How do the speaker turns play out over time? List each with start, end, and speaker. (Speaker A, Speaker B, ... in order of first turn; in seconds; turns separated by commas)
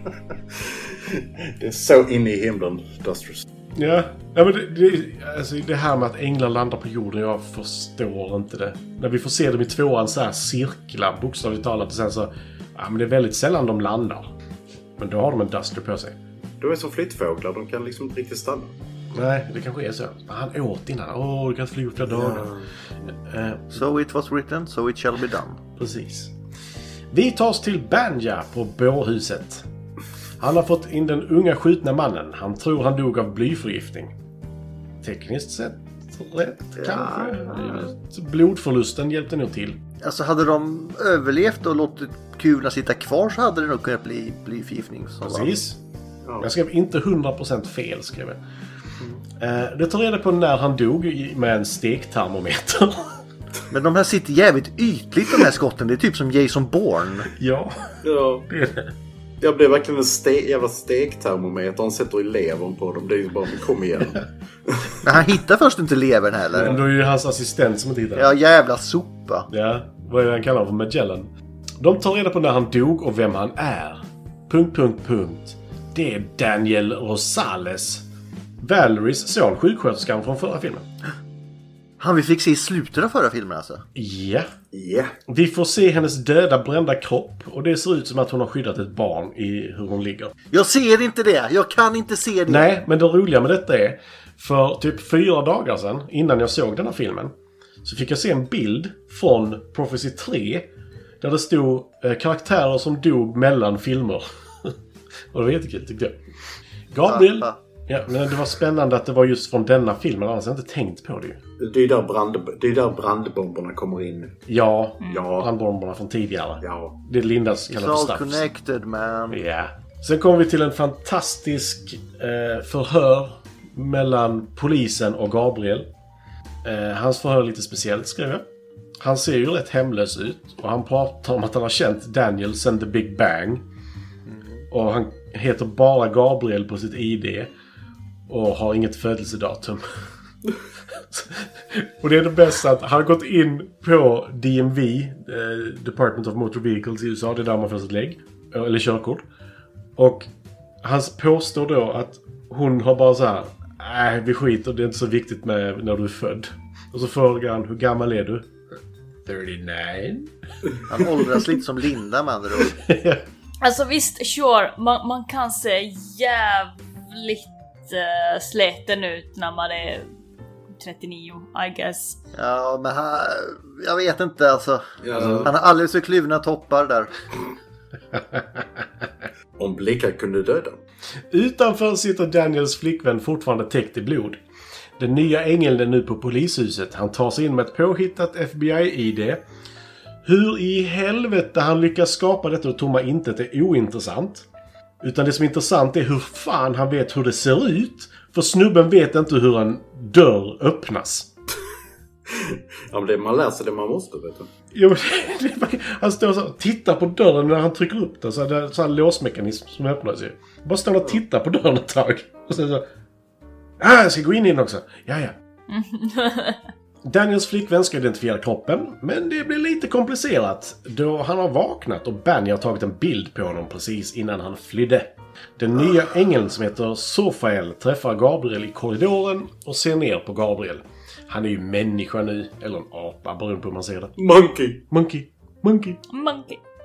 Speaker A: 1.1-3.4, Speaker B: 3.8-14.3, Speaker B: 15.0-16.2, Speaker A: 16.6-18.7, Speaker B: 19.1-22.5, Speaker A: 22.1-22.7, Speaker B: 23.2-23.8, Speaker C: 23.7-25.6, Speaker B: 25.8-26.3, Speaker B: 27.1-29.6, Speaker B: 30.4-34.1, Speaker B: 35.0-39.8, Speaker A: 36.8-37.9, Speaker C: 40.0-45.5, Speaker B: 45.2-45.8, Speaker B: 46.4-48.4, Speaker B: 49.4-53.2, Speaker C: 53.7-57.3, Speaker B: 57.4-58.0, Speaker A: 58.0-58.5, Speaker B: 58.5-58.9, Speaker A: 59.4-65.0, Speaker C: 65.0-66.8, Speaker B: 66.6-68.3, Speaker C: 68.2-69.5, Speaker B: 69.5-78.0, Speaker B: 78.6-80.9, Speaker C: 82.0-83.8, Speaker B: 84.0-84.5, Speaker A: 84.7-85.2, Speaker B: 85.3-90.3, Speaker C: 90.5-92.7, Speaker B: 92.5-97.3, Speaker B: 97.8-100.7, Speaker B: 101.2-104.8, Speaker B: 105.3-106.2, Speaker B: 106.9-111.4, Speaker C: 107.1-107.6, Speaker A: 111.6-114.4, Speaker B: 114.5-118.4, Speaker A: 115.1-115.5, Speaker A: 116.6-117.0, Speaker C: 117.7-119.4, Speaker B: 119.3-125.9, Speaker B: 126.6-128.5, Speaker B: 129.0-133.6, Speaker C: 134.3-134.7, Speaker B: 134.7-137.5, Speaker B: 138.3-139.8, Speaker B: 141.0-149.2, Speaker B: 150.0-150.3, Speaker B: 150.8-158.5, Speaker B: 159.3-160.3, Speaker C: 160.9-162.8, Speaker B: 161.0-161.4, Speaker B: 162.6-163.2, Speaker D: 163.6-170.1, Speaker D: 170.8-172.2, Speaker C: 172.3-174.8, Speaker A: 175.0-175.5, Speaker B: 175.2-175.5, Speaker C: 175.4-177.1, Speaker A: 179.6-180.8, Speaker B: 181.3-184.4, Speaker B: 185.0-189.4, Speaker B: 190.2-194.5, Speaker B: 195.0-201.3, Speaker A: 202.3-204.5, Speaker B: 204.7-212.9, Speaker B: 213.8-215.3, Speaker D: 215.7-216.6, Speaker B: 217.1-234.2, Speaker A: 234.2-234.8, Speaker B: 234.9-236.0, Speaker D: 236.1-236.6